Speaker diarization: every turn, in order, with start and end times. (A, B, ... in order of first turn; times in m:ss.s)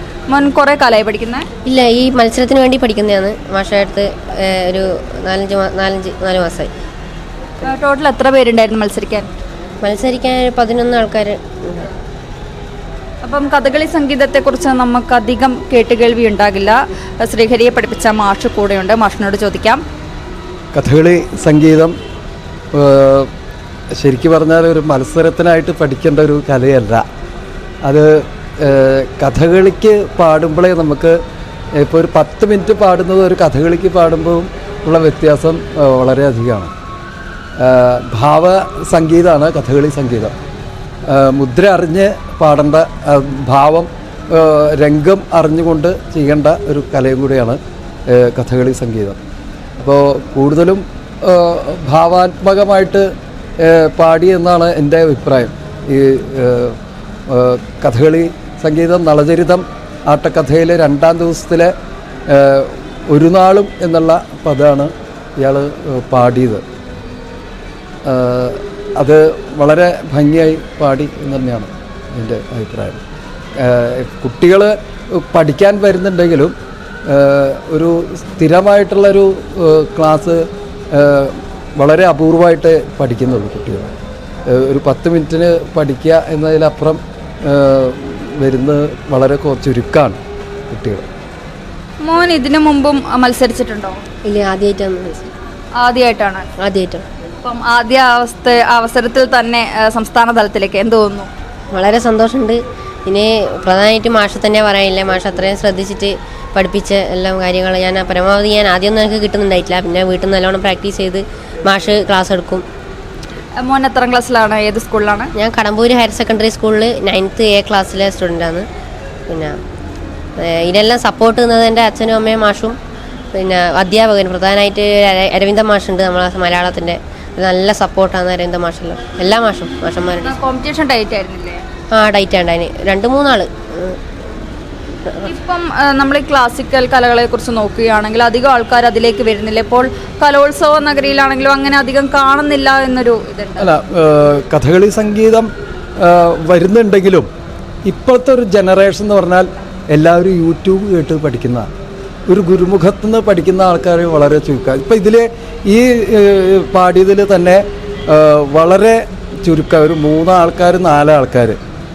0:00.3-0:01.5 A
0:01.7-0:06.7 B
0:07.6-0:09.3 A
0:09.8-0:11.9 B
0:13.2-0:19.8 A
0:20.7-0:22.0 C
0:22.7-0:23.3 C
0:24.0-0:27.0 C
0:27.8-0:31.2 C
0:31.8-0:36.7 C
0:37.6-0:40.4 C
0:41.1-0:49.2 C
0:49.8-0:56.8 C
0:57.3-1:01.7 C
1:02.3-1:06.6 C
1:08.0-1:13.0 C
1:13.6-1:16.5 C
1:17.1-1:23.9 C
1:24.5-1:30.2 C
1:30.7-1:31.0 C
1:32.0-1:34.0 A
1:34.2-1:35.3 B
1:35.8-1:36.5 A
1:36.6-1:37.0 B
1:37.4-1:41.3 A
1:41.7-1:52.6 B
1:53.6-1:55.3 A
1:55.4-1:58.7 B
1:59.3-1:59.6 B
2:00.4-2:02.8 B
2:03.3-2:10.4 B
2:10.2-2:11.6 A
2:11.9-2:14.0 B
2:15.2-2:23.7 A
2:23.6-2:27.3 C
2:27.8-2:31.7 C
2:32.3-2:41.6 C